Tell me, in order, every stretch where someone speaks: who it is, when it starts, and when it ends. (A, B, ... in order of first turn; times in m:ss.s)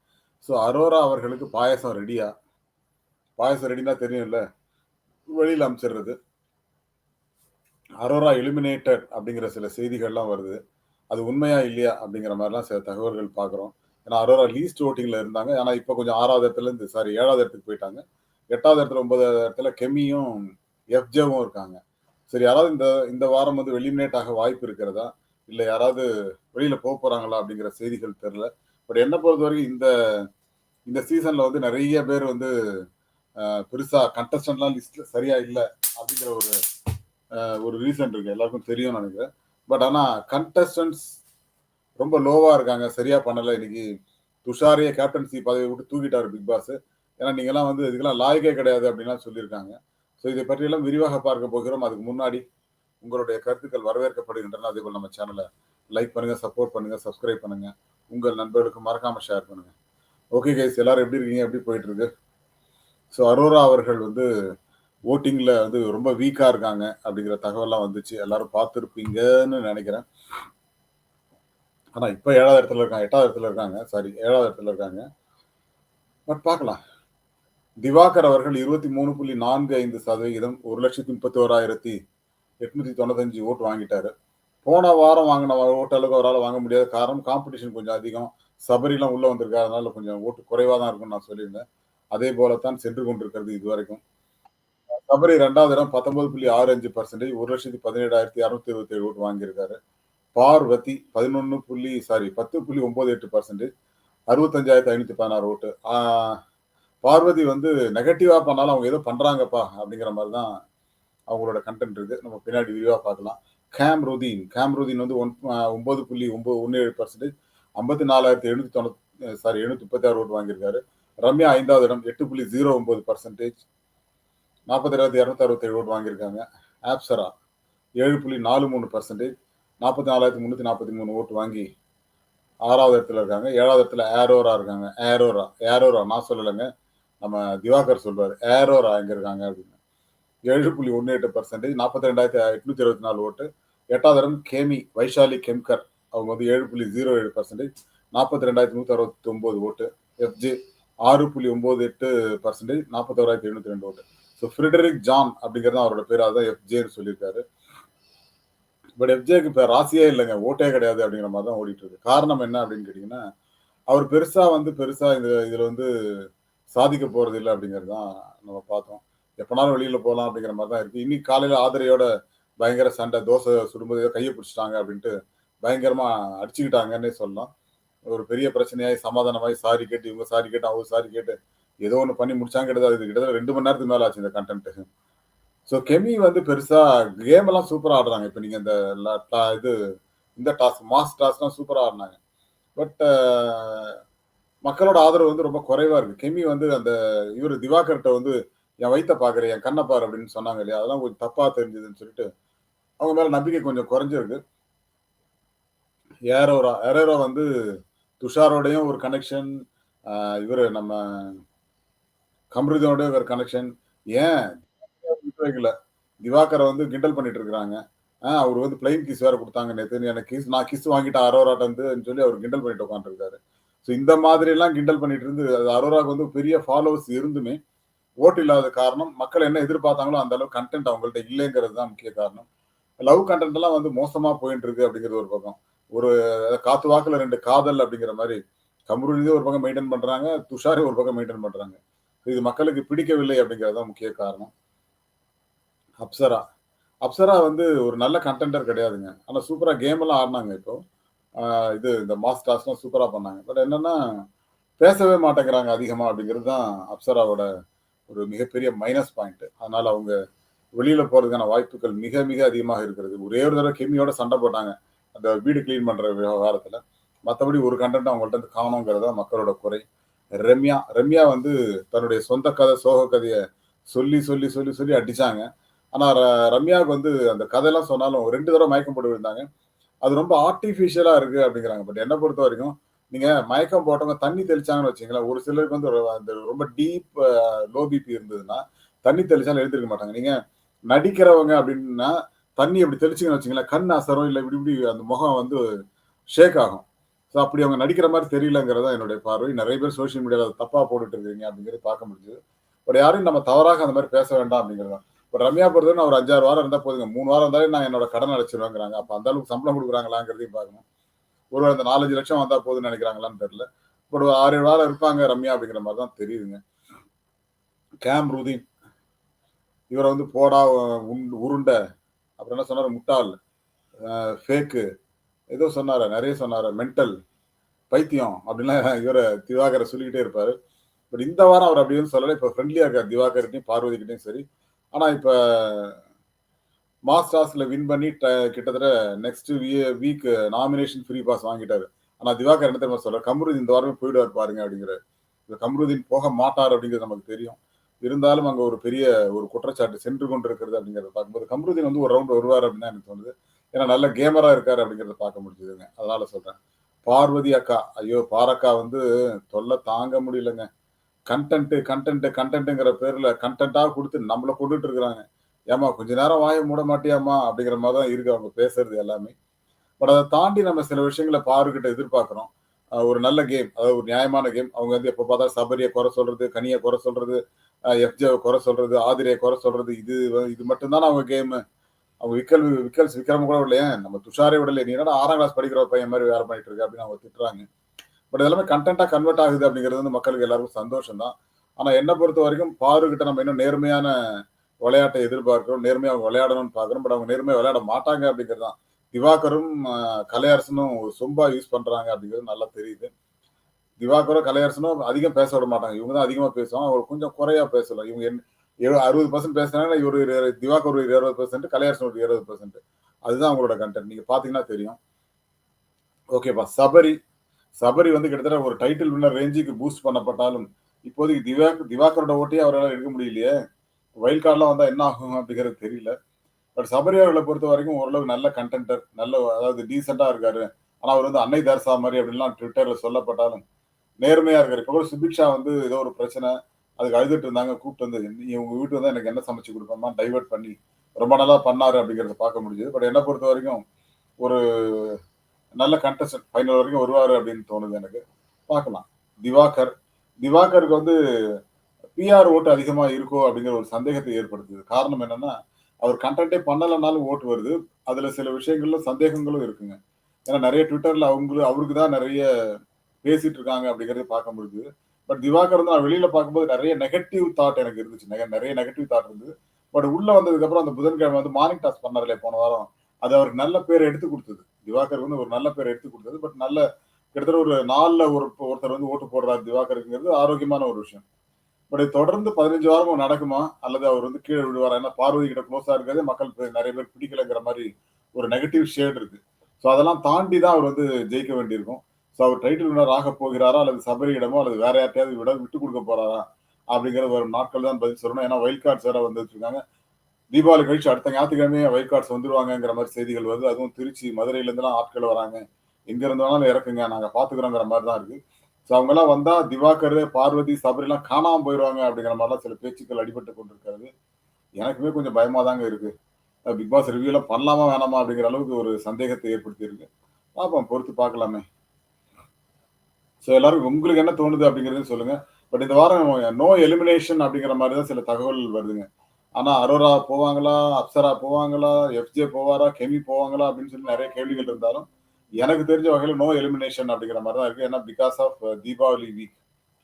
0:00.4-0:02.3 A
0:03.4-0:04.4 A
0:05.3-0:06.1 A
0:08.0-0:10.6 A
0:11.1-0:20.4 A
0:20.9-0:21.8 A
0:22.3-0:29.9 A
0:30.9-0:32.5 A
0:33.4-0:36.5 A
0:37.4-0:41.2 A
0:42.0-0:43.8 A
0:44.4-0:52.4 A
0:53.0-0:59.7 A
1:00.3-1:02.1 A
1:03.1-1:04.3 A
1:05.1-1:10.0 A
1:12.0-1:15.0 A
1:16.3-1:16.8 A
1:17.8-1:22.0 A
1:22.6-1:24.1 A
1:24.6-1:31.6 A
1:32.1-1:34.0 A
1:35.1-1:39.8 A
1:40.4-1:43.7 A
1:44.3-1:46.4 A
1:47.0-1:50.5 A
1:51.3-2:03.6 A
2:04.7-2:07.3 A
2:08.0-2:09.3 A
2:09.8-2:11.7 A
2:12.7-2:16.7 A
2:17.2-2:19.7 A
2:20.5-2:37.4 A
2:39.0-2:43.2 A
2:43.9-2:45.9 A
2:46.7-2:52.0 A
2:52.6-2:55.1 A
2:55.6-2:57.5 A
2:58.1-3:04.8 A
3:05.7-3:09.7 A
3:10.4-3:12.2 A
3:12.8-3:14.0 A
3:14.6-3:22.2 A
3:23.0-3:24.4 A
3:26.3-3:27.5 A
3:28.2-3:29.5 A
3:30.1-3:31.4 A
3:32.5-3:47.6 A
3:48.2-3:52.4 A
3:53.0-4:04.5 A
4:06.0-4:06.4 A
4:07.0-4:10.8 A
4:11.4-4:14.0 A
4:14.8-4:17.4 A
4:18.1-4:20.1 A
4:20.8-4:29.8 A
4:30.4-4:33.4 A
4:33.9-4:39.4 A
4:40.0-4:50.3 A
4:50.9-4:55.6 A
4:56.3-5:10.8 A
5:11.5-5:16.6 A
5:18.0-5:18.6 A
5:19.9-5:21.8 A
5:22.4-5:23.3 A
5:24.0-5:24.8 A
5:25.5-5:27.1 A
5:27.9-5:30.5 A
5:31.1-5:34.4 A
5:34.9-5:36.0 A
5:37.1-6:00.6 A
6:01.3-6:09.3 A
6:10.0-6:12.5 A
6:13.0-6:17.4 A
6:17.9-6:21.6 A
6:22.2-6:27.6 A
6:28.3-6:34.1 A
6:34.8-6:43.1 A
6:44.0-6:55.0 A
6:56.3-6:57.2 A
6:57.8-7:03.5 A
7:04.2-7:06.1 A
7:06.8-7:13.6 A
7:14.2-7:23.8 A
7:24.4-7:25.2 A
7:25.8-7:31.2 A
7:32.2-7:40.0 A
7:40.5-7:42.5 A
7:43.2-7:56.8 A
7:57.3-8:01.2 A
8:01.9-8:19.8 A
8:20.5-8:34.1 A
8:34.8-8:36.1 A
8:36.7-8:41.6 A
8:43.4-8:49.0 A
8:49.6-8:55.0 A
8:55.6-8:59.6 A